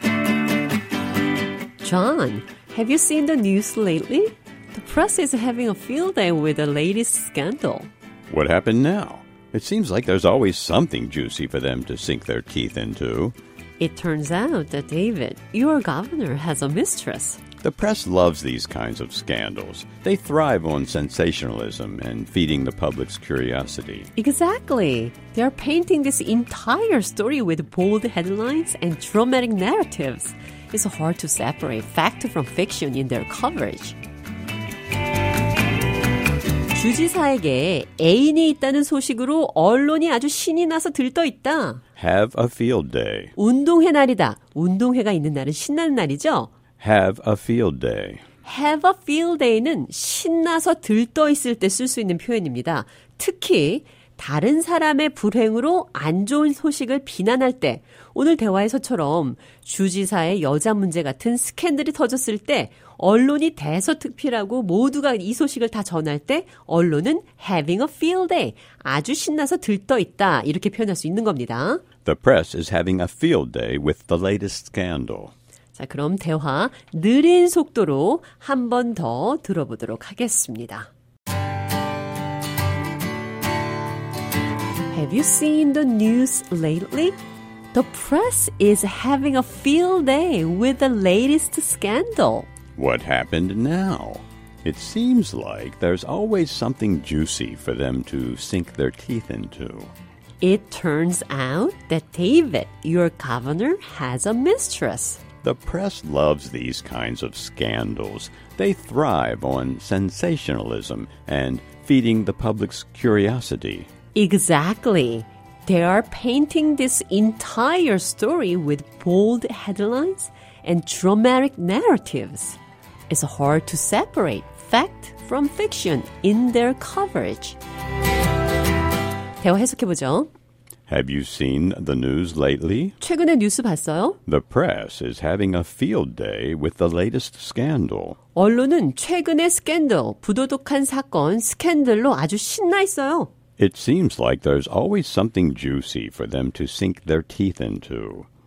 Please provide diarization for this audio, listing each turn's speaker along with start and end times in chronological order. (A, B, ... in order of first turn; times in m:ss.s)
0:01.8-0:07.9 A
0:08.3-0:13.4 B
0:13.8-0:17.4 A
0:17.6-0:24.1 B
0:24.2-0:34.0 A
0:36.7-0:41.8 A
0:42.0-0:43.3 B
0:43.4-0:46.5 A
0:46.8-0:48.2 B
0:48.4-1:11.8 A
1:12.0-1:15.3 B
1:15.7-1:20.9 A
1:24.9-1:27.2 A
1:27.7-1:32.5 A
1:32.8-1:39.9 B
1:40.4-1:45.2 A
1:45.4-1:53.9 B
1:54.1-2:02.6 A
2:03.1-2:07.6 A
2:09.4-2:10.3 A
2:10.9-2:13.0 B
2:13.0-2:14.2 A
2:14.3-2:18.2 B
2:18.3-2:23.3 A
2:23.6-2:28.3 B